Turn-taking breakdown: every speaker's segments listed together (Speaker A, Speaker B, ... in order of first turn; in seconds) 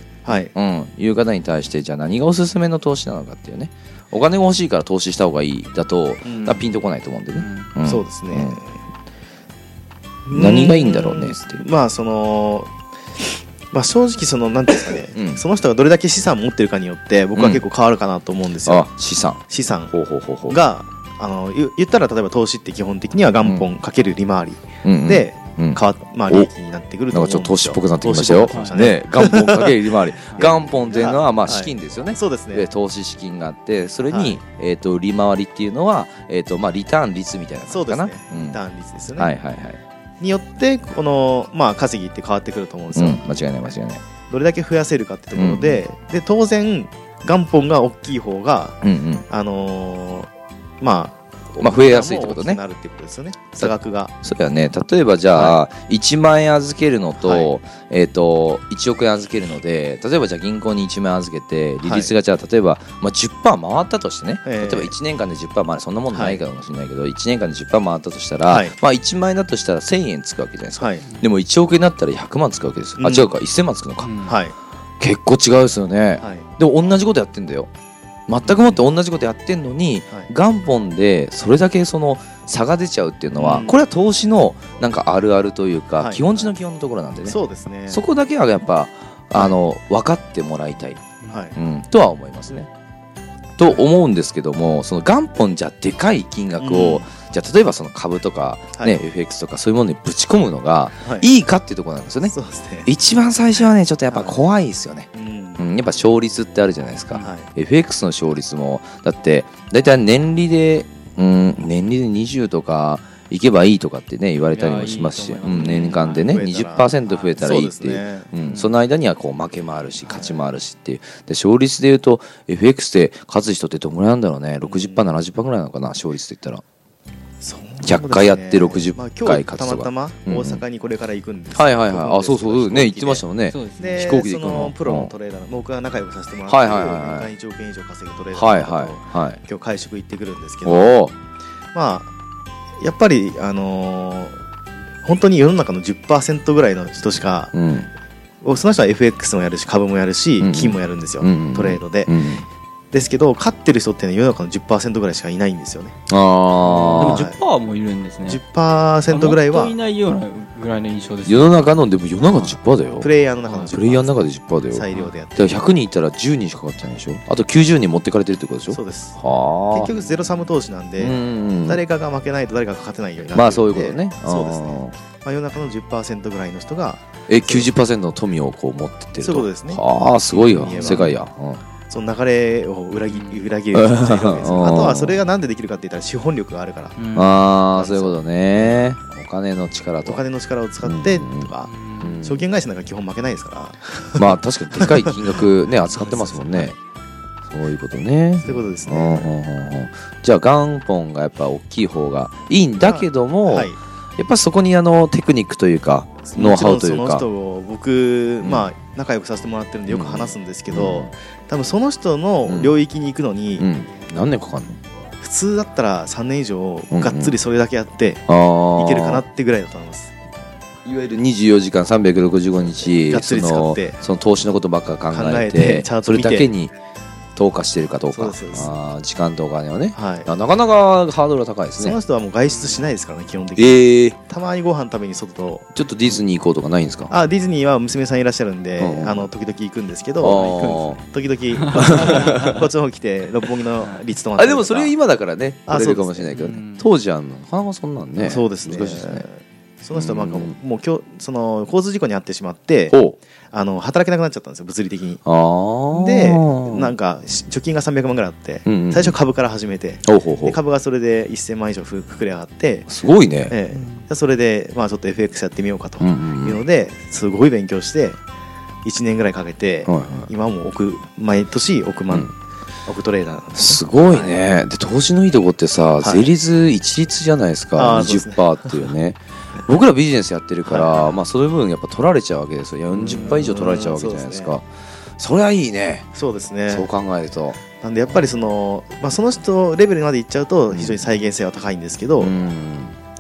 Speaker A: 0.2-0.5, 6.3-6.6, 7.9-8.8, 10.3-12.7, 13.7-18.9, 19.5-19.9, 20.5-29.7, 30.4-32.7, 34.1-34.4, 37.7-39.3, 40.2-43.2, 44.3-50.3, 50.8-54.1, 55.3-55.6, 57.2-57.5, 61.8-62.1, 64.4-64.9, 66.1-66.4, 68.5-68.8, 70.8-71.0, 73.0-73.3, 74.3-74.5, 76.2-76.5, 78.4-78.8, 83.3-83.8, 86.0-86.5, 87.2-88.0, 91.3-91.6, 96.6-97.1, 101.0-101.3, 102.2-102.9, 104.1-104.4, 105.1-105.6, 107.2-107.5, 115.5-118.3, 120.0-120.5, 124.6-125.1, 127.4-133.3, 133.8-141.0, 141.7-142.1, 142.8-144.4, 145.0-147.5, 148.4-152.2, 152.9-156.0, 157.0-157.4, 158.2-159.8, 163.0-165.6, 168.7-169.2, 169.7-177.7, 179.2-181.2, 181.9-187.0, 187.7-188.9, 190.0-191.7, 192.2-195.5, 196.0-196.7, 198.4-199.3, 202.8-203.8, 206.2-213.7, 215.2-218.2, 218.8-220.1, 222.6-224.0, 225.1-226.5, 228.1-228.8, 229.9-230.3, 231.8-235.7, 237.1-244.9, 245.7-246.3, 248.2-253.0, 253.5-255.2, 255.9-262.9, 263.5-268.2, 268.8-272.3, 272.9-274.4, 276.0-276.3, 277.8-278.5, 280.6-281.2, 282.9-284.6, 286.1-286.9, 287.8-292.3
Speaker B: 0.5-8.6, 10.3-11.6, 15.1-15.4, 17.4-17.6, 18.6-20.6, 24.8-26.5, 27.1-38.6, 39.2-39.8, 42.9-44.0, 45.4-45.8, 48.8-49.3, 51.6-52.6, 53.6-74.2, 75.0-77.7, 78.3-87.4, 87.9-92.7, 93.6-102.3, 102.9-126.6, 127.8-130.6, 131.6-135.1, 136.5-137.3, 138.3-139.4, 140.6-141.1, 147.5-147.9, 150.4-152.5, 156.1-157.2, 161.2-169.9, 171.0-171.8, 173.3-175.0, 177.3-181.6, 183.7-185.2, 187.2-190.2, 190.8-191.5, 192.0-192.5, 194.2-196.8, 197.5-207.2, 208.4-208.7, 209.9-211.1, 212.4-212.8, 213.6-214.8, 216.9-217.4, 218.3-219.2, 220.8-226.7, 227.4-232.0, 233.6-234.2, 235.7-237.1, 238.8-239.3, 240.2-241.0, 241.7-242.6, 244.4-249.3, 249.9-250.6, 252.9-253.2, 255.2-256.9, 258.7-259.1, 260.1-260.6, 262.9-263.6, 266.0-266.6, 269.9-270.3, 273.5-284.7, 285.2-286.1, 286.7-287.6, 290.7-291.0, 292.2-293.0
Speaker C: 7.4-7.7, 28.5-28.8, 74.0-74.4, 114.5-116.4, 118.3-118.8, 133.5-134.0, 156.6-158.4, 159.1-161.7, 180.5-181.2, 183.1-183.5, 187.0-187.4, 191.6-192.2, 241.8-242.6, 246.3-246.9, 263.8-264.1